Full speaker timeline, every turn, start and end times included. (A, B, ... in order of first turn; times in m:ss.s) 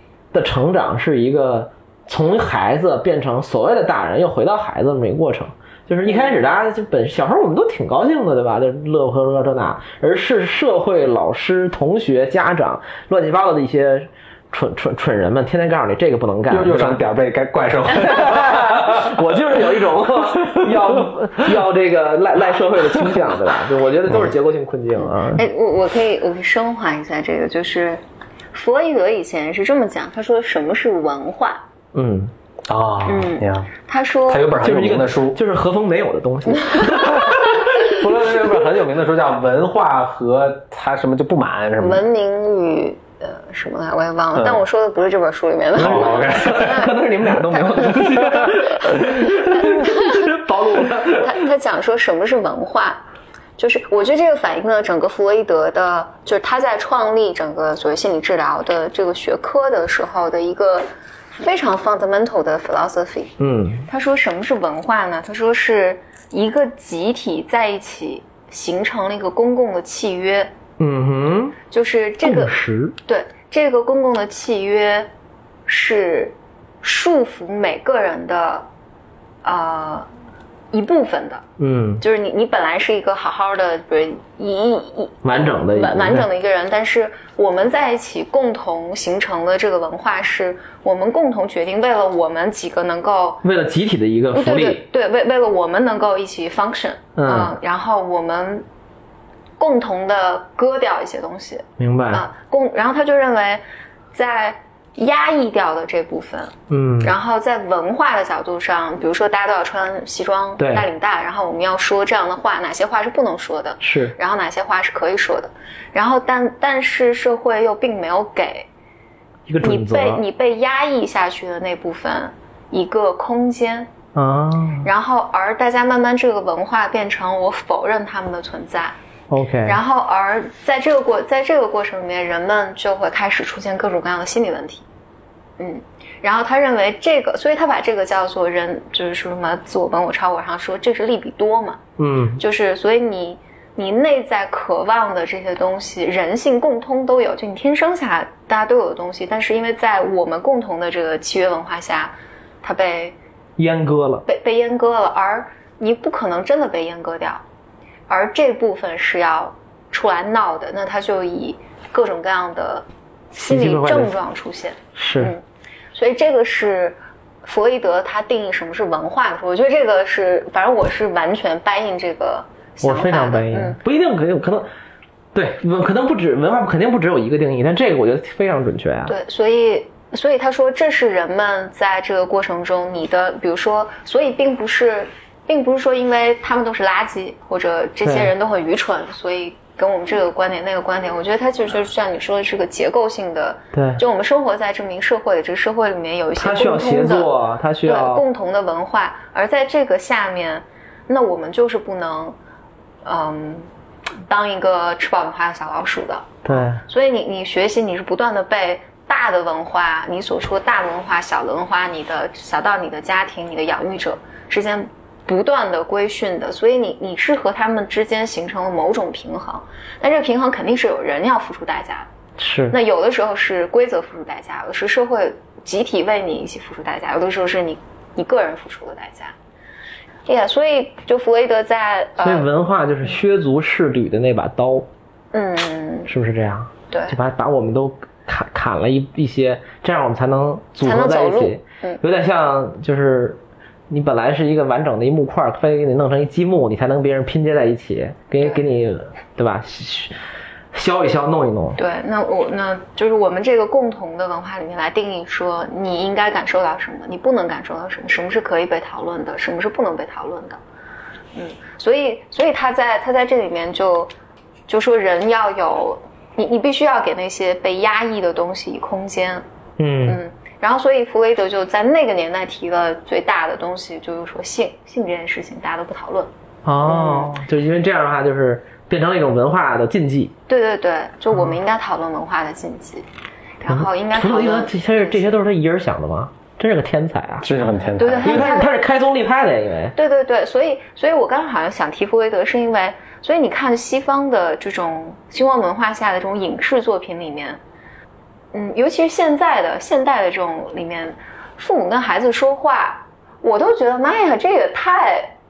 0:00.3-0:17.0 A
0:06.1-0:06.4 B
0:16.5-0:19.2 C
0:17.9-0:25.4 A
0:25.0-0:31.6 B
0:31.9-0:32.3 A
0:32.7-0:33.7 C
0:33.1-0:34.5 B
0:34.3-0:35.4 C
0:34.6-0:37.7 A
0:37.2-0:42.0 C
0:41.8-0:53.0 B
0:45.8-0:51.4 A
0:45.8-0:46.9 C
0:53.6-1:10.5 B
1:03.4-1:03.9 A
1:10.8-1:11.6 A
1:11.7-1:15.1 B
1:12.2-1:13.0 A
1:15.7-1:18.7 B
1:19.4-1:20.1 B
1:20.7-1:21.4 B
1:21.6-1:22.0 A
1:22.0-1:33.4 B
1:25.2-1:26.3 A
1:33.4-1:34.8 A
1:34.3-1:38.7 B
1:37.2-1:37.6 A
1:39.6-1:43.6 B
1:41.8-1:42.3 A
1:44.1-1:58.7 B
1:46.7-1:47.2 A
1:50.6-1:50.9 A
1:53.8-1:54.2 A
1:59.5-2:00.2 A
1:59.6-2:03.9 B
2:04.2-2:04.9 A
2:04.8-2:09.0 B
2:09.3-2:09.8 A
2:09.6-2:14.9 B
2:15.6-2:21.8 B
2:22.0-2:22.4 A
2:22.4-2:33.2 B
2:33.6-2:34.2 A
2:34.2-2:37.4 B
2:38.1-2:45.4 B
2:43.4-2:44.1 A
2:45.0-2:45.4 A
2:45.9-2:53.8 B
2:52.8-2:54.7 A
2:55.3-2:59.2 A
2:59.1-3:22.4 B
3:08.0-3:08.3 A
3:13.7-3:14.0 A
3:16.4-3:18.2 A
3:23.0-3:23.7 B
3:24.3-3:42.1 B
3:26.4-3:26.8 A
3:42.4-3:42.8 A
3:42.7-3:49.4 B
3:50.3-3:52.5 B
3:52.2-3:54.9 A
3:55.3-3:56.1 B
3:56.1-4:03.4 A
3:56.9-3:57.2 B
4:00.8-4:02.0 B
4:03.9-4:10.2 A
4:10.7-4:11.8 A
4:11.8-4:20.6 B
4:21.4-4:24.1 B
4:24.7-4:29.4 B
4:29.8-4:30.2 A
4:30.0-4:36.3 B
4:36.6-4:40.3 A
4:36.8-4:37.4 B
4:40.5-4:43.1 B
4:43.6-4:45.4 B
4:43.7-4:47.5 A
4:47.4-4:48.5 C
4:48.0-4:48.7 B
4:48.2-4:50.0 A
4:50.0-4:57.6 B
4:58.5-5:05.3 B